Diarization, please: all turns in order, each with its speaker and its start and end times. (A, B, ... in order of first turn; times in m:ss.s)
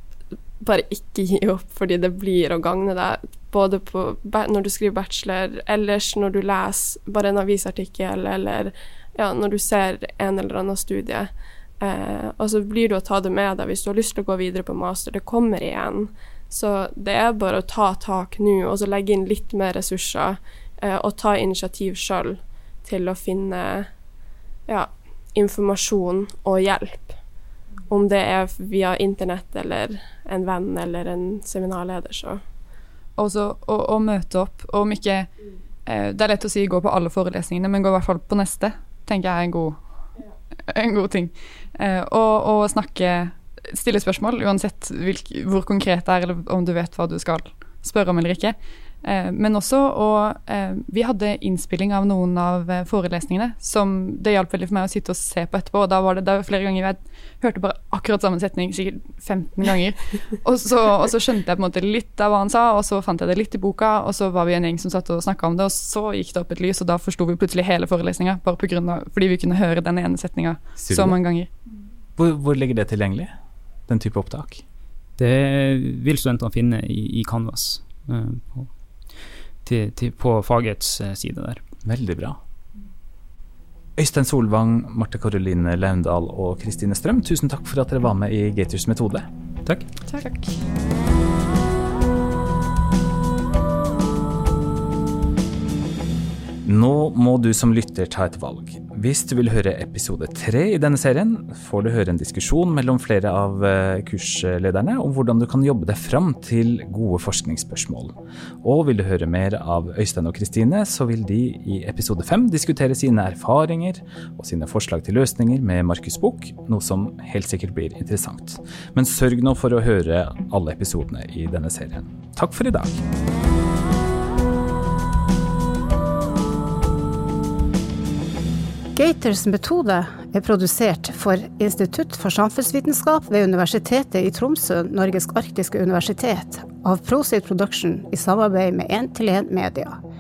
0:00.6-0:23.9 A
0:24.7-0:27.2 A
0:27.9-0:32.4 A
0:33.2-0:35.3 B
0:35.8-0:39.8 B
0:40.7-1:11.5 B
1:10.8-1:11.2 C
1:12.2-1:13.3 C
1:13.9-1:14.6 C
1:15.2-1:18.7 D
1:19.6-1:21.6 D
1:21.8-1:22.4 C
1:24.0-1:29.3 C
1:30.1-1:30.4 A
1:36.6-2:03.0 C
2:08.9-2:20.0 E